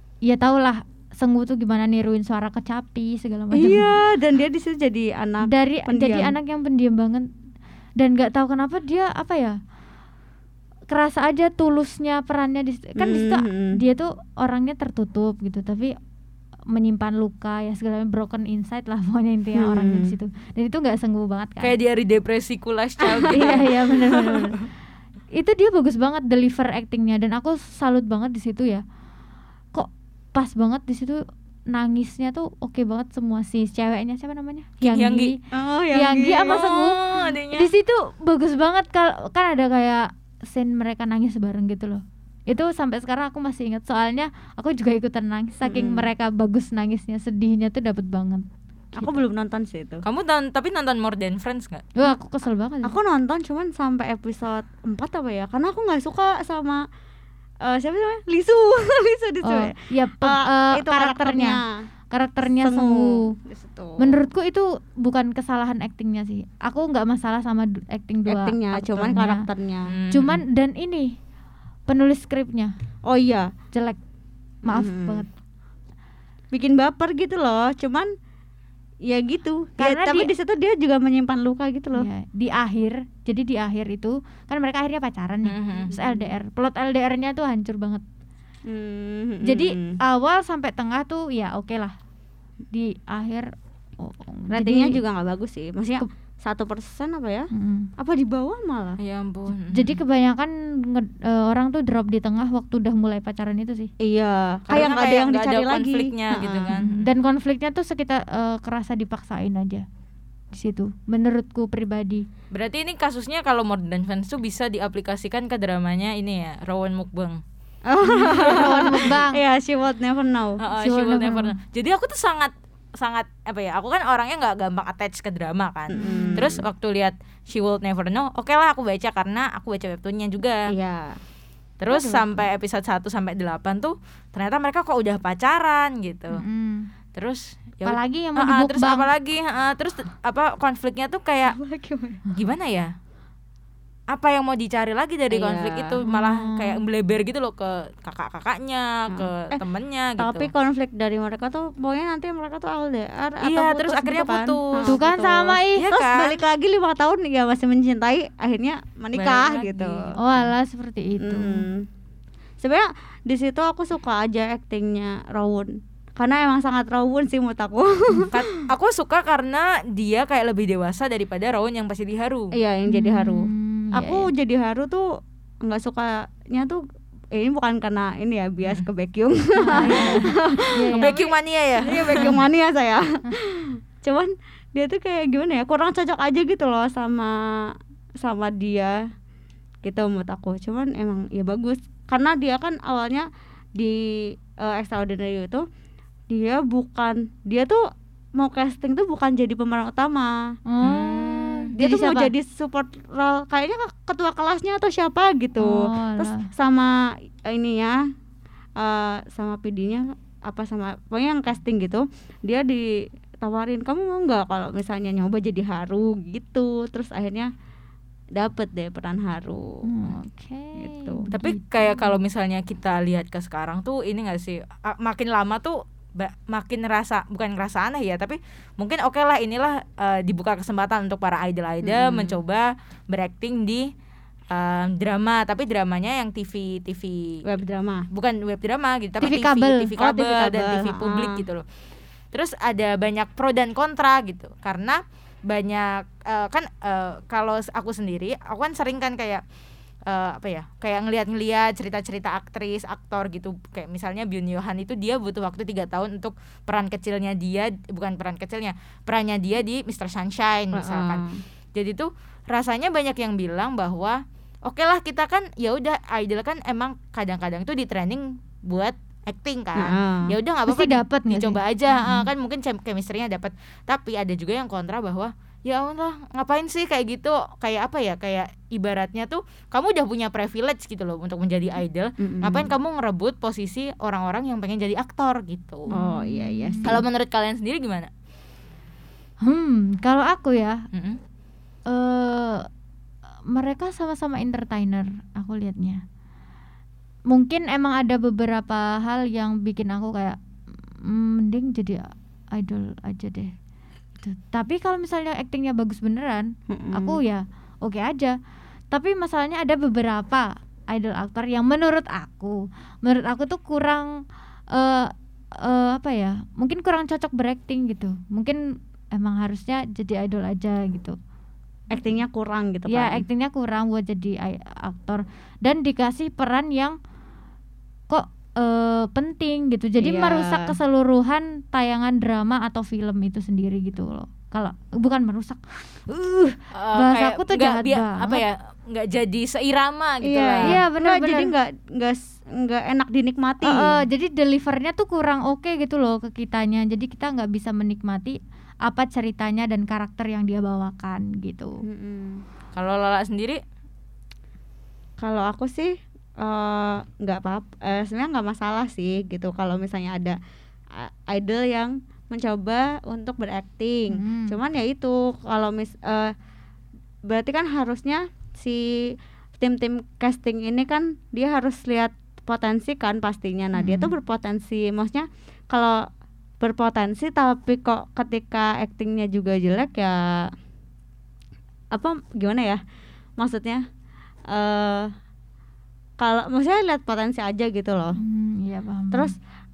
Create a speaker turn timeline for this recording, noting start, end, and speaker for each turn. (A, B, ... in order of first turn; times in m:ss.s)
0:00.2-0:03.9 A
0:03.5-0:06.3 B
0:05.4-0:07.3 A
0:08.0-0:09.6 A
0:10.9-0:16.0 A
0:13.0-0:13.8 B
0:16.7-0:21.8 A
0:19.6-0:20.1 B
0:21.6-0:24.5 C
0:23.2-0:24.6 A
0:25.3-0:28.8 A
0:29.7-0:35.4 A
0:34.8-0:35.3 C
0:35.5-0:36.7 B
0:35.9-0:49.2 A
0:36.5-0:37.7 C
0:45.6-0:46.1 B
0:49.0-0:50.0 B
0:50.0-0:51.9 C
0:52.0-0:53.0 A
0:52.8-0:56.8 B
0:57.6-1:01.8 B
0:59.4-1:01.6 A
1:02.1-1:03.4 A
1:02.6-1:04.2 B
1:04.0-1:09.4 A
1:08.3-1:09.9 B
1:09.9-1:10.4 C
1:10.1-1:11.2 A
1:11.9-1:12.7 A
1:13.0-1:13.5 B
1:13.7-1:14.0 A
1:14.7-1:15.3 B
1:14.7-1:15.3 A
1:16.5-1:18.1 B
1:19.0-1:22.1 B
1:19.8-1:20.3 A
1:22.0-1:28.0 A
1:25.4-1:25.9 C
1:25.9-1:26.3 B
1:28.7-1:30.0 B
1:29.4-1:32.0 A
1:32.7-1:35.0 A
1:34.5-1:39.0 B
1:37.5-1:37.9 A
1:39.0-1:40.0 C
1:39.7-1:43.9 A
1:44.0-1:46.7 B
1:44.7-1:47.1 C
1:46.7-1:49.8 A
1:50.5-1:52.3 A
1:52.5-1:57.4 C
1:57.9-2:00.6 B
1:58.0-1:59.4 A
1:58.6-1:58.9 C
2:00.6-2:10.7 C
2:00.7-2:01.6 A
2:05.9-2:06.6 B
2:05.9-2:06.5 A
2:10.7-2:11.2 B
2:11.8-2:16.4 C
2:11.9-2:12.4 B
2:16.3-2:16.9 A
2:17.1-2:21.6 C
2:17.8-2:19.1 A
2:21.5-2:22.2 B
2:22.3-2:22.9 C
2:24.1-2:30.5 C
2:25.3-2:26.0 B
2:26.0-2:26.8 A
2:29.1-2:29.6 B
2:30.2-2:40.2 B
2:33.4-2:35.1 C
2:34.9-2:35.9 A
2:35.7-2:36.4 C
2:39.1-2:40.4 C
2:40.2-2:41.6 A
2:41.2-2:41.9 B
2:42.6-2:48.4 B
2:48.3-2:52.6 C
2:52.5-2:56.8 B
2:52.9-2:54.3 A
2:57.3-3:09.0 B
2:59.6-3:01.2 A
2:59.7-3:00.2 C
3:00.9-3:02.3 C
3:09.8-3:15.6 B
3:16.3-3:17.8 B
3:18.4-3:20.4 B
3:20.7-3:22.3 A
3:20.8-3:21.7 C
3:21.8-3:26.9 B
3:25.6-3:26.5 A
3:27.4-3:28.0 B
3:28.8-3:37.5 B
3:38.4-3:39.8 B
3:39.9-3:42.2 A
3:40.8-3:41.2 B
3:41.3-3:53.9 C
3:51.8-3:52.4 B
3:54.5-3:57.4 C
3:57.4-3:58.1 B
3:58.1-4:01.6 C
3:59.2-3:59.9 A
4:00.0-4:01.4 B
4:02.3-4:09.4 C
4:10.1-4:45.9 C
4:20.7-4:21.4 B
4:29.8-4:30.3 B
4:30.7-4:32.2 A
4:42.2-4:42.7 B
4:45.9-4:47.0 A
4:45.9-4:47.0 B
4:46.8-4:48.1 C
4:49.4-4:50.8 A
4:50.9-4:51.2 C
4:51.9-4:52.7 A
4:53.5-4:56.0 A
4:57.3-5:00.4 A
5:01.0-5:03.5 A
5:04.2-5:08.4 A
5:06.7-5:07.2 B
5:08.9-5:14.2 A
5:14.7-5:21.2 A
5:21.9-5:23.3 B
5:22.9-5:27.0 A
5:28.1-5:38.4 A
5:30.0-5:30.8 B
5:36.7-5:40.8 C
5:40.2-5:44.0 B
5:40.6-5:41.5 A
5:43.6-5:51.8 A
5:51.8-5:52.4 B
5:52.7-5:53.6 C
5:55.2-6:00.4 B
6:00.9-6:06.3 B
6:04.1-6:04.6 A
6:07.3-6:16.1 B
6:13.8-6:14.1 A
6:16.6-6:20.5 B
6:21.9-6:22.8 B
6:23.4-6:23.8 B
6:24.5-6:25.1 B
6:26.2-6:28.2 B
6:28.2-6:29.3 A